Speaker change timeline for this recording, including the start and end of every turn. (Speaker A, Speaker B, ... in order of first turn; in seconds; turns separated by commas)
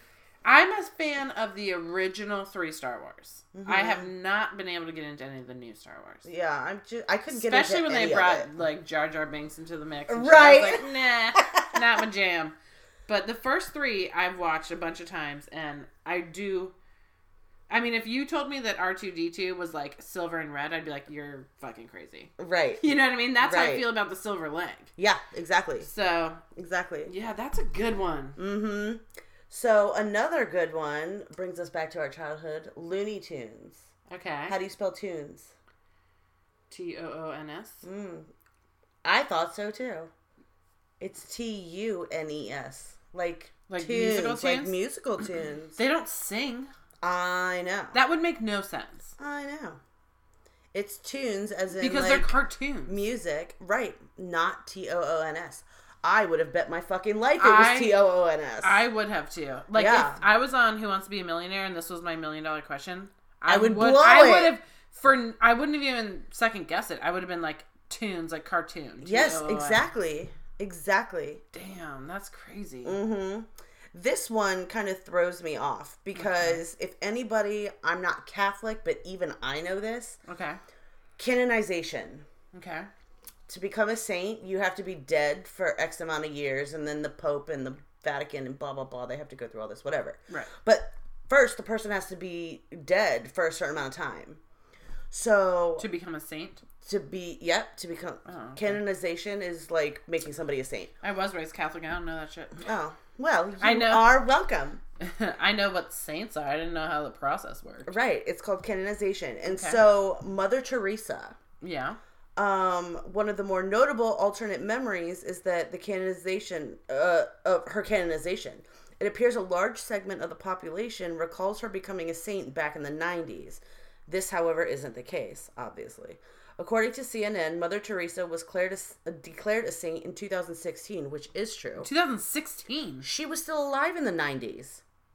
Speaker A: 0.4-6.3, Speaker B: 3.5-4.1, Speaker B: 6.2-8.5, Speaker A: 7.3-12.5, Speaker B: 10.1-11.8, Speaker A: 13.1-16.7, Speaker A: 17.7-24.9, Speaker B: 22.4-23.9, Speaker B: 25.0-25.9, Speaker A: 25.8-26.4, Speaker B: 26.5-27.1, Speaker A: 27.1-28.4, Speaker B: 28.4-33.9, Speaker A: 34.1-34.6, Speaker B: 34.5-35.5, Speaker A: 36.7-37.8, Speaker B: 37.8-38.3, Speaker B: 39.0-40.1, Speaker B: 41.0-45.8, Speaker A: 43.7-44.8, Speaker A: 45.8-46.7, Speaker B: 47.0-48.0, Speaker A: 47.9-49.1, Speaker B: 49.2-49.8, Speaker B: 50.7-52.3, Speaker A: 51.8-53.0, Speaker B: 52.9-58.8, Speaker A: 57.4-58.0, Speaker A: 58.6-69.8, Speaker B: 59.7-60.2, Speaker B: 63.5-64.5, Speaker B: 69.0-71.4, Speaker A: 71.5-73.0, Speaker B: 72.8-80.2, Speaker A: 76.1-76.6, Speaker A: 80.2-80.6, Speaker B: 81.2-82.2, Speaker A: 82.5-82.9, Speaker B: 83.5-94.4, Speaker B: 95.1-95.8, Speaker A: 95.8-96.6, Speaker B: 96.8-100.9, Speaker A: 98.2-98.8, Speaker A: 101.0-102.6, Speaker B: 102.6-104.8, Speaker A: 103.6-104.2, Speaker A: 105.0-107.9, Speaker B: 107.8-111.4, Speaker A: 109.5-109.8, Speaker A: 111.6-112.0, Speaker B: 112.3-131.9, Speaker A: 131.8-133.1, Speaker B: 133.0-134.8